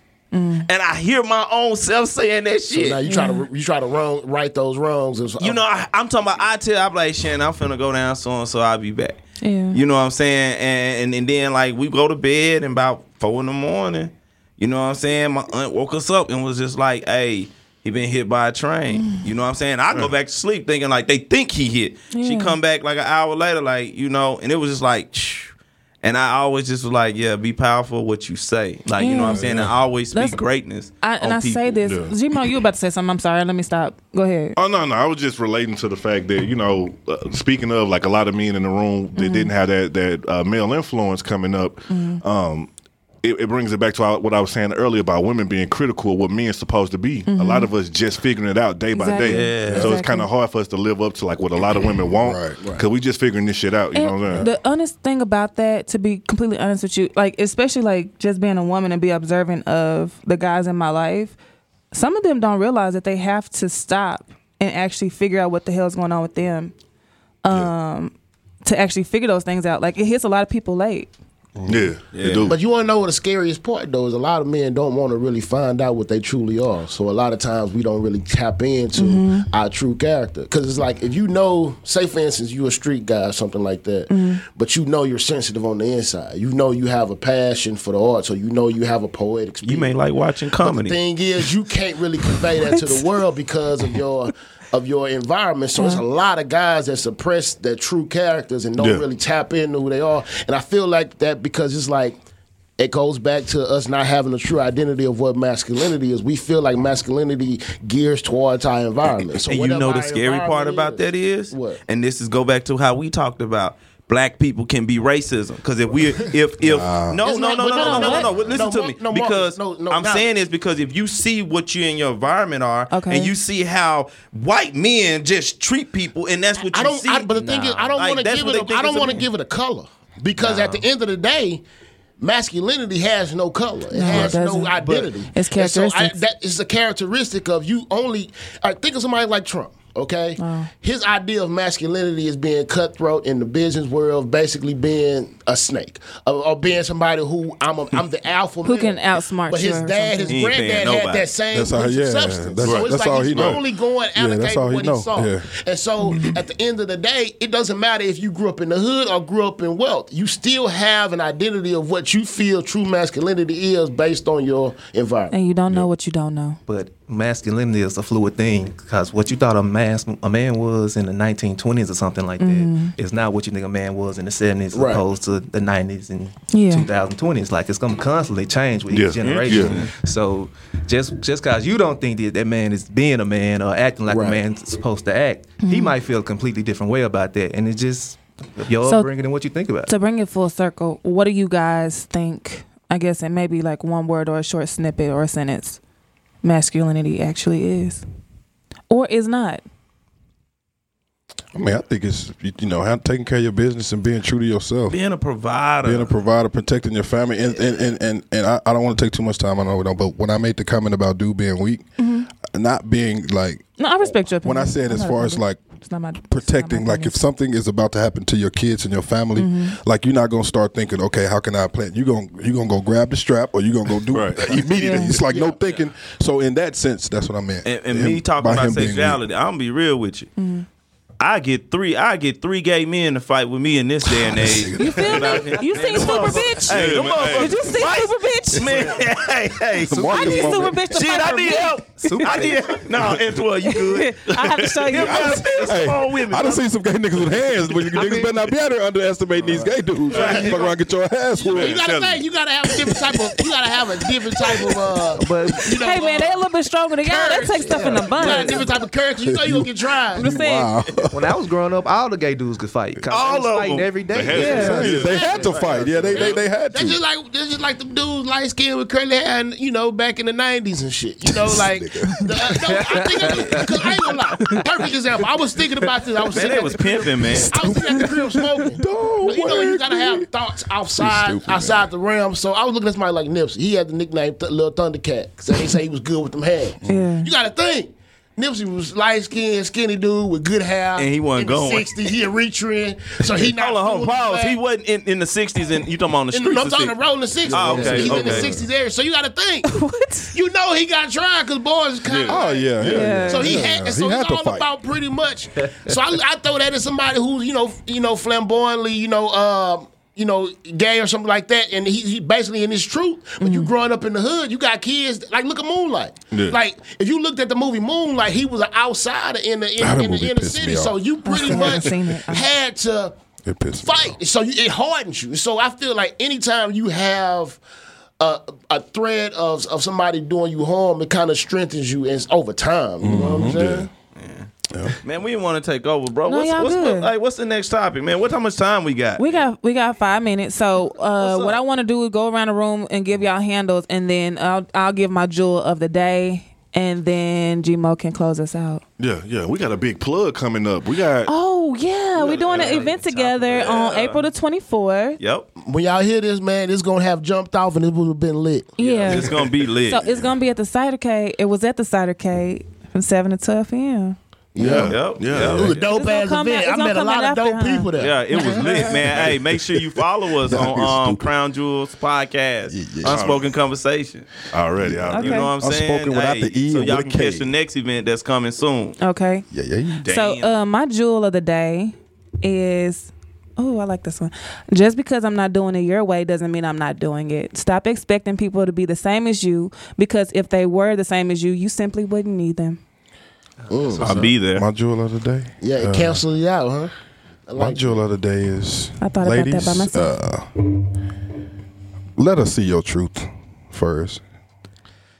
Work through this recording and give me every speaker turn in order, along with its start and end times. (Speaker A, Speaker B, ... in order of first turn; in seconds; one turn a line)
Speaker A: 0.3-0.7
Speaker B: 0.7-3.0
Speaker C: 2.7-5.6
Speaker A: 3.1-3.4
Speaker B: 5.4-9.2
Speaker A: 9.4-9.8
Speaker B: 9.7-31.8
Speaker A: 18.9-19.3
Speaker A: 22.1-22.6
Speaker A: 29.0-29.4
Speaker D: 29.3-29.7
Speaker A: 30.1-30.4
Speaker A: 31.0-34.6
Speaker E: 31.8-32.1
Speaker E: 34.6-42.7
Speaker A: 39.1-39.5
Speaker A: 41.9-42.2
Speaker E: 43.2-54.5
Speaker A: 47.3-47.7
Speaker A: 48.9-50.3
Speaker B: 49.2-49.9
Speaker D: 49.6-49.9
Speaker D: 52.2-52.6
Speaker A: 53.9-61.3
Speaker A: 61.9-66.7
Speaker A: 67.4-71.1
Speaker D: 71.6-71.9
Speaker E: 71.7-72.6
Speaker B: 72.1-72.5
Speaker C: 72.5-89.9
Speaker A: 79.0-79.5
Speaker A: 84.1-84.4
Speaker B: 89.6-91.0
Speaker C: 90.6-102.2
Speaker A: 92.7-93.0
Speaker A: 95.8-96.0
Speaker E: 98.8-99.0
Speaker C: 102.8-111.8
Speaker B: 109.4-129.2
Speaker D: 116.6-117.2
Speaker C: 117.2-120.3
Speaker A: 117.3-118.3
Speaker A: 122.9-123.3
Speaker C: 126.7-131.6
Speaker F: 127.4-127.8
Speaker F: 130.4-130.8
Speaker C: 132.2-165.3
Speaker A: 133.9-136.2
Speaker A: 140.4-140.7
Speaker A: 148.6-150.4
Speaker B: 150.3-151.2
Speaker D: 151.5-153.6
Speaker E: 152.6-153.6
Speaker D: 154.1-155.5
Speaker A: 165.3-166.6
Speaker F: 166.7-189.9
Speaker A: 172.4-172.9
Speaker C: 174.7-175.0
Speaker A: 176.5-176.9
Speaker E: 178.9-179.8
Speaker B: 179.2-179.9
Speaker C: 184.1-184.4
Speaker A: 185.6-185.9
Speaker A: 188.8-189.1
Speaker A: 189.9-195.8
Speaker A: 196.4-198.0
Speaker A: 198.9-199.6
Speaker D: 201.5-205.0
Speaker B: 204.9-206.1
Speaker D: 205.8-211.8
Speaker A: 212.0-212.3
Speaker D: 212.4-213.6
Speaker A: 213.8-217.2
Speaker D: 214.4-215.6
Speaker D: 216.3-229.2
Speaker A: 219.4-219.8
Speaker E: 224.1-224.5
Speaker A: 224.7-225.2
Speaker B: 227.6-230.3
Speaker A: 230.4-230.7
Speaker B: 231.2-246.7
Speaker D: 234.1-235.5
Speaker A: 234.8-238.8
Speaker F: 235.6-236.7
Speaker E: 236.6-237.6
Speaker D: 239.9-240.8
Speaker F: 239.9-240.8
Speaker A: 240.1-242.3
Speaker F: 242.0-242.8
Speaker A: 243.6-245.5
Speaker D: 244.9-251.8
Speaker F: 247.9-248.4
Speaker F: 249.3-249.8
Speaker B: 250.1-250.7
Speaker C: 250.1-250.7
Speaker E: 250.2-250.5
Speaker C: 251.4-256.4
Speaker E: 251.5-252.2
Speaker D: 252.7-253.2
Speaker D: 254.1-254.7
Speaker F: 255.2-255.7
Speaker D: 255.2-255.6
Speaker A: 255.7-258.6
Speaker C: 257.0-260.3
Speaker F: 257.6-258.6
Speaker D: 258.2-258.4
Speaker D: 259.2-261.2
Speaker A: 260.1-260.7
Speaker F: 261.1-266.4
Speaker B: 263.1-263.9
Speaker E: 264.1-265.2
Speaker A: 264.3-264.8
Speaker D: 264.5-267.0
Speaker C: 264.9-294.6
Speaker D: 271.3-273.9
Speaker F: 272.6-273.8
Speaker B: 276.3-277.7
Speaker D: 277.7-278.2
Speaker D: 278.7-280.3
Speaker D: 281.0-281.9
Speaker D: 286.8-287.1
Speaker A: 286.9-287.3
Speaker B: 290.9-291.9
Speaker B: 293.4-296.9
Speaker C: 296.3-299.8
Speaker D: 297.4-298.7
Speaker B: 297.5-298.5
Speaker F: 297.7-298.1
Speaker A: 299.6-300.3
Speaker C: 300.3-323.1
Speaker E: 302.0-303.2
Speaker D: 302.2-304.7
Speaker A: 302.8-303.6
Speaker A: 313.4-313.7
Speaker E: 316.3-316.6
Speaker D: 319.8-321.9
Speaker A: 321.2-322.5
Speaker D: 323.4-324.2
Speaker C: 323.8-327.6
Speaker C: 328.2-333.9
Speaker D: 333.0-333.8
Speaker E: 333.5-333.9
Speaker B: 334.2-334.5
Speaker D: 334.7-334.9
Speaker B: 335.0-339.4
Speaker A: 336.3-337.1
Speaker A: 339.2-348.8
Speaker B: 341.2-341.6
Speaker E: 349.0-351.3
Speaker A: 351.2-355.2
Speaker F: 352.2-353.7
Speaker B: 352.4-354.2
Speaker B: 355.2-355.5
Speaker C: 355.6-358.7
Speaker A: 358.8-364.1
Speaker B: 358.8-360.0
Speaker C: 364.5-368.9
Speaker E: 364.6-365.8
Speaker B: 364.8-365.9
Speaker A: 365.8-369.0
Speaker B: 368.0-374.3
Speaker D: 370.4-371.3
Speaker D: 372.7-373.3
Speaker E: 373.1-373.4
Speaker E: 374.5-375.4
Speaker D: 374.8-377.5
Speaker B: 375.1-379.0
Speaker A: 375.1-375.5
Speaker A: 379.0-379.4
Speaker D: 379.5-380.0
Speaker B: 380.0-380.5
Speaker A: 380.0-392.8
Speaker F: 393.7-394.3
Speaker C: 393.7-394.3
Speaker B: 394.0-394.6
Speaker D: 394.3-396.2
Speaker C: 395.6-396.9
Speaker C: 397.5-397.9
Speaker D: 397.6-400.9
Speaker A: 399.0-400.1
Speaker D: 402.1-404.2